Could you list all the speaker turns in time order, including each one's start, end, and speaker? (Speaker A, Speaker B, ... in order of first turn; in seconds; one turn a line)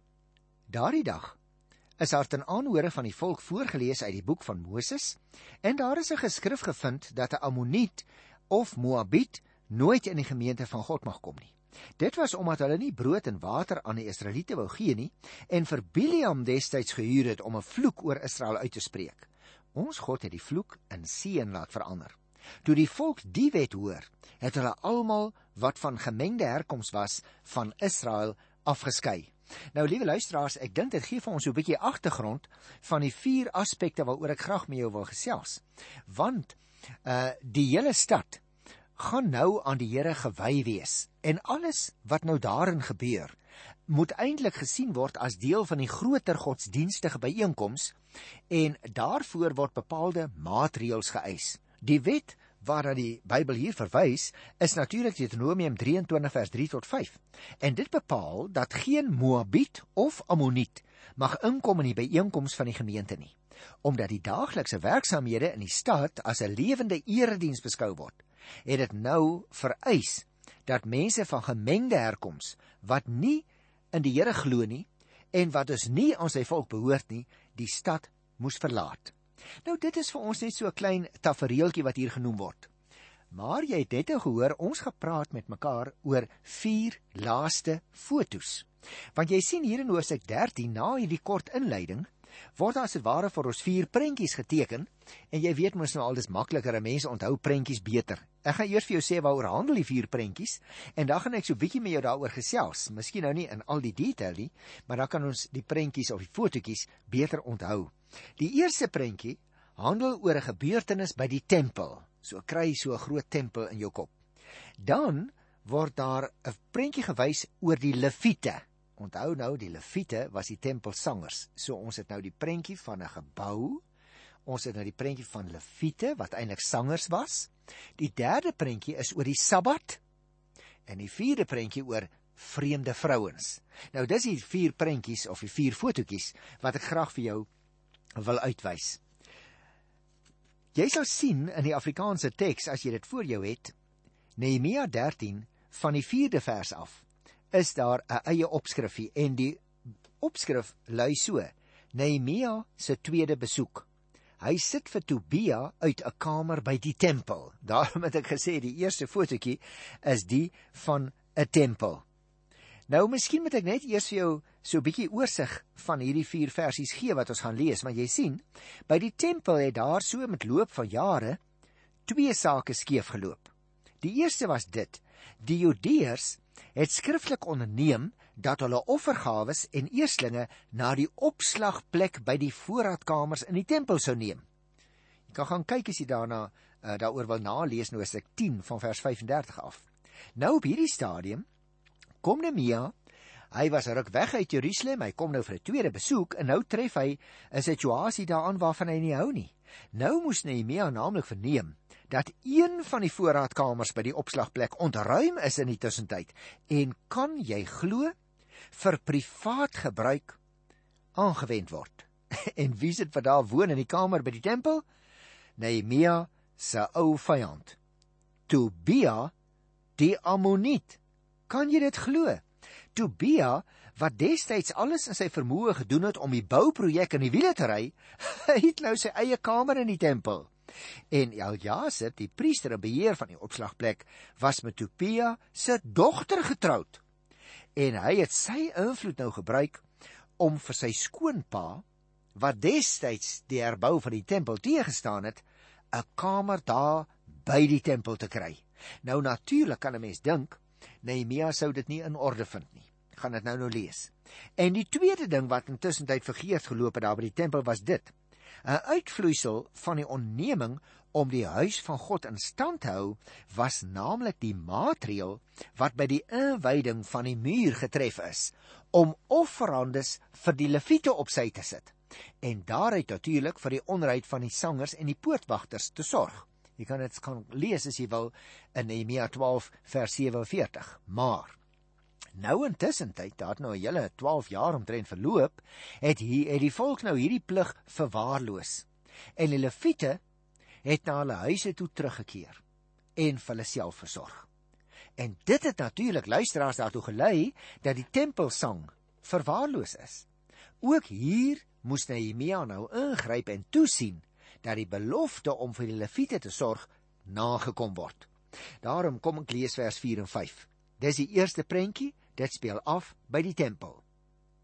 Speaker A: 0.7-1.4
Speaker A: 2.0-38.4
Speaker A: 39.0-43.4
Speaker A: 43.9-48.0
Speaker A: 48.5-82.7
Speaker A: 83.3-114.1
Speaker A: 114.8-123.8
Speaker A: 124.5-130.0
Speaker A: 130.9-137.5
Speaker A: 138.2-139.0
Speaker A: 140.7-143.7
Speaker A: 144.4-149.6
Speaker A: 150.2-153.9
Speaker A: 154.4-162.0
Speaker A: 162.9-171.4
Speaker A: 172.1-173.5
Speaker A: 174.0-184.4
Speaker A: 185.3-189.9
Speaker A: 190.4-191.4
Speaker A: 192.2-192.9
Speaker A: 193.5-208.1
Speaker A: 208.7-210.4
Speaker A: 211.2-214.8
Speaker A: 215.6-217.8
Speaker A: 218.5-219.3
Speaker A: 220.0-222.4
Speaker A: 222.9-230.5
Speaker A: 231.1-237.0
Speaker A: 237.8-239.8
Speaker A: 240.4-241.8
Speaker A: 242.3-258.1
Speaker A: 258.6-281.6
Speaker A: 282.4-288.9
Speaker A: 289.4-290.2
Speaker A: 290.9-292.6
Speaker A: 293.2-294.5
Speaker A: 295.2-300.3
Speaker A: 300.8-308.3
Speaker A: 308.8-314.0